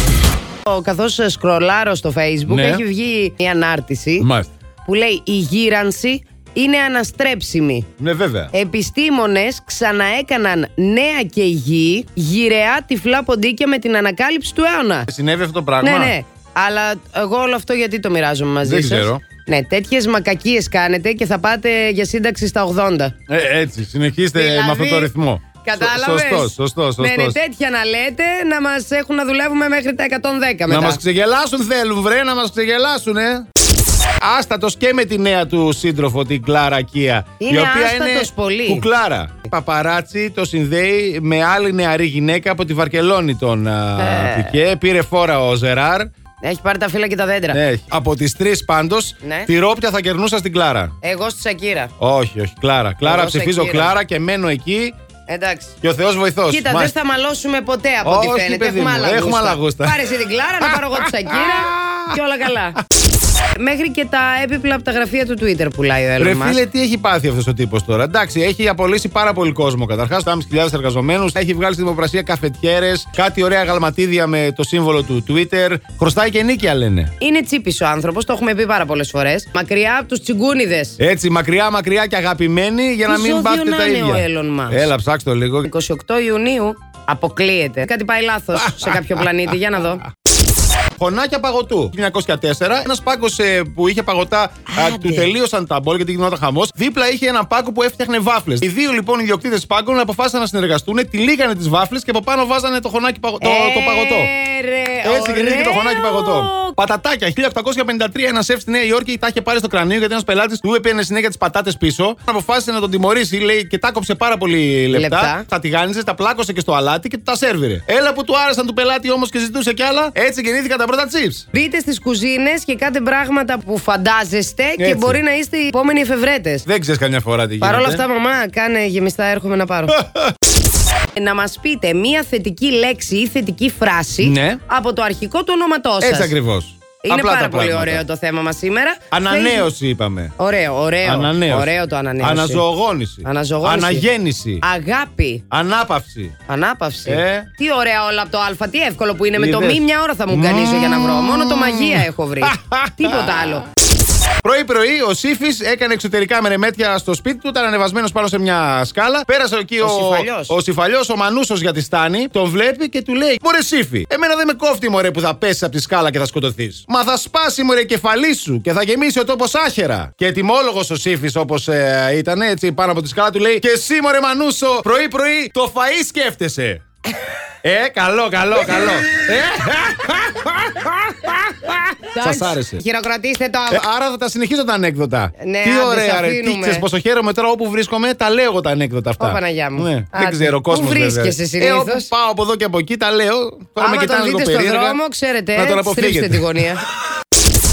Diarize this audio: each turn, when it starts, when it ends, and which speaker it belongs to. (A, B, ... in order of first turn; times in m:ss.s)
0:00.6-0:04.3 A
0:02.5-0:02.8 B
0:04.2-0:04.5 B
0:04.8-0:07.9 A
0:08.0-0:08.5 B
0:08.5-0:15.1 A
0:15.1-0:16.1 B
0:15.8-0:23.1 A
0:18.6-0:19.2 B
0:23.3-0:27.4 B
0:24.3-0:25.1 A
0:25.6-0:31.0 A
0:30.7-0:33.4 B
0:34.2-0:46.1 B
0:37.4-0:38.8 A
0:44.0-0:44.6 A
0:46.4-0:47.6 A
0:47.5-0:50.9 B
0:49.2-0:49.5 A
0:51.0-0:51.9 A
0:52.0-0:54.9 B
0:53.0-0:53.9 A
0:55.3-0:55.7 A
0:55.8-0:56.9 B
0:56.5-1:02.8 A
0:58.0-1:00.0 B
1:00.6-1:02.2 B
1:03.6-1:06.6 A
1:06.2-1:17.1 B
1:17.2-1:21.0 A
1:21.0-1:25.7 B
1:23.1-1:24.9 A
1:25.6-1:30.0 A
1:28.6-1:29.0 B
1:31.0-1:44.3 B
1:34.7-1:35.3 A
1:43.4-1:46.8 A
1:45.0-2:01.4 B
1:54.9-1:55.4 A
2:01.5-2:06.6 A
2:04.8-2:05.2 B
2:06.7-2:08.0 B
2:07.6-2:10.0 A
2:09.9-2:10.3 B
2:11.1-2:16.3 A
2:14.2-2:14.6 B
2:16.0-2:18.0 B
2:17.0-2:19.7 A
2:19.1-2:20.3 B
2:20.4-2:22.6 A
2:21.0-2:24.6 B
2:23.2-2:24.0 A
2:24.6-2:25.4 A
2:25.5-2:26.4 B
2:26.5-2:33.6 A
2:27.0-2:27.5 B
2:29.4-2:33.6 B
2:34.4-2:56.8 B
2:39.8-2:40.5 A
2:57.6-3:02.8 B
3:02.1-3:03.8 A
3:03.7-3:15.0 B
3:05.4-3:06.8 A
3:09.2-3:12.1 A
3:13.8-3:16.8 A
3:15.5-3:16.4 B